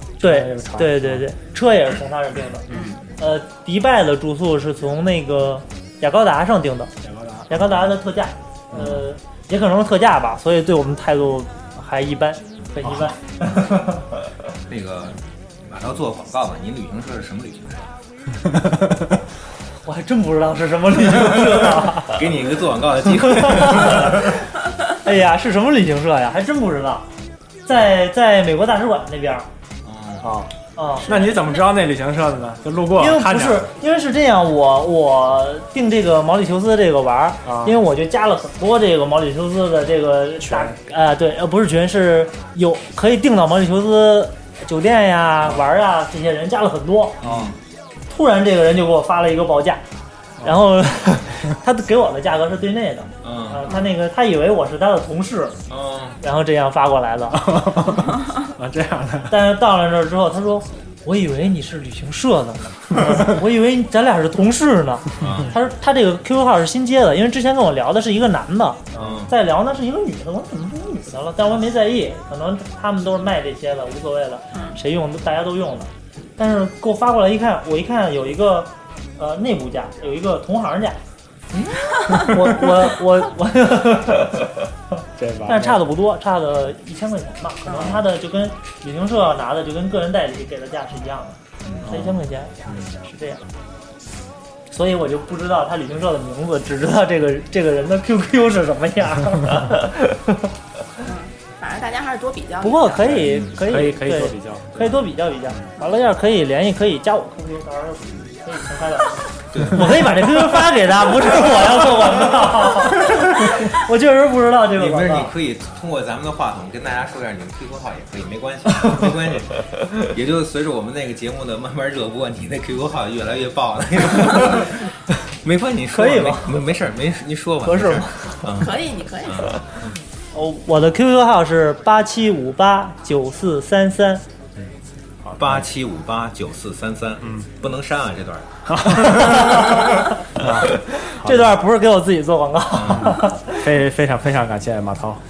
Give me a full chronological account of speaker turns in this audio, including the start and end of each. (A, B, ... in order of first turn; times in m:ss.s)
0:00.2-0:01.3 A
0:00.2-0:06.9 B
0:02.7-0:03.0 C
0:02.7-0:03.0 A
0:07.0-0:07.8 A
0:07.5-0:14.1 B
0:08.7-0:09.1 A
0:12.8-0:13.1 A
0:14.7-0:17.9 D
0:19.8-0:22.2 B
0:21.2-0:24.4 D
0:23.3-0:24.3 B
0:25.0-0:27.1 B
0:27.7-0:29.5 B
0:29.8-0:30.4 D
0:30.2-0:33.7 A
0:30.8-0:31.2 B
0:31.1-0:31.6 C
0:33.0-0:47.2 B
0:37.4-0:37.8 A
0:40.4-0:40.8 A
0:47.2-0:47.6 A
0:47.2-0:47.6 D
0:48.1-0:49.8 B
0:50.4-0:55.6 B
0:53.2-0:53.7 D
0:55.7-0:56.2 D
0:56.2-0:57.6 B
0:57.4-0:59.5 A
0:59.3-1:21.0 B
1:05.2-1:05.6 D
1:08.9-1:09.3 D
1:09.0-1:09.2 A
1:21.6-1:24.5 B
1:21.7-1:22.4 C
1:25.2-1:25.8 A
1:25.5-1:33.4 B
1:27.7-1:28.0 C
1:31.6-1:33.0 A
1:34.7-1:40.5 B
1:41.0-1:43.3 C
1:42.6-1:55.3 B
1:43.2-1:45.7 A
1:49.5-1:53.6 D
1:54.7-2:10.0 D
2:05.9-2:06.6 B
2:07.6-2:08.5 B
2:08.5-2:09.6 C
2:10.3-2:14.2 B
2:15.2-2:15.6 A
2:15.4-2:20.6 D
2:18.7-2:19.8 A
2:19.3-2:20.0 B
2:20.4-2:21.6 A
2:21.1-2:23.6 B
2:22.7-2:23.2 D
2:22.9-2:25.2 A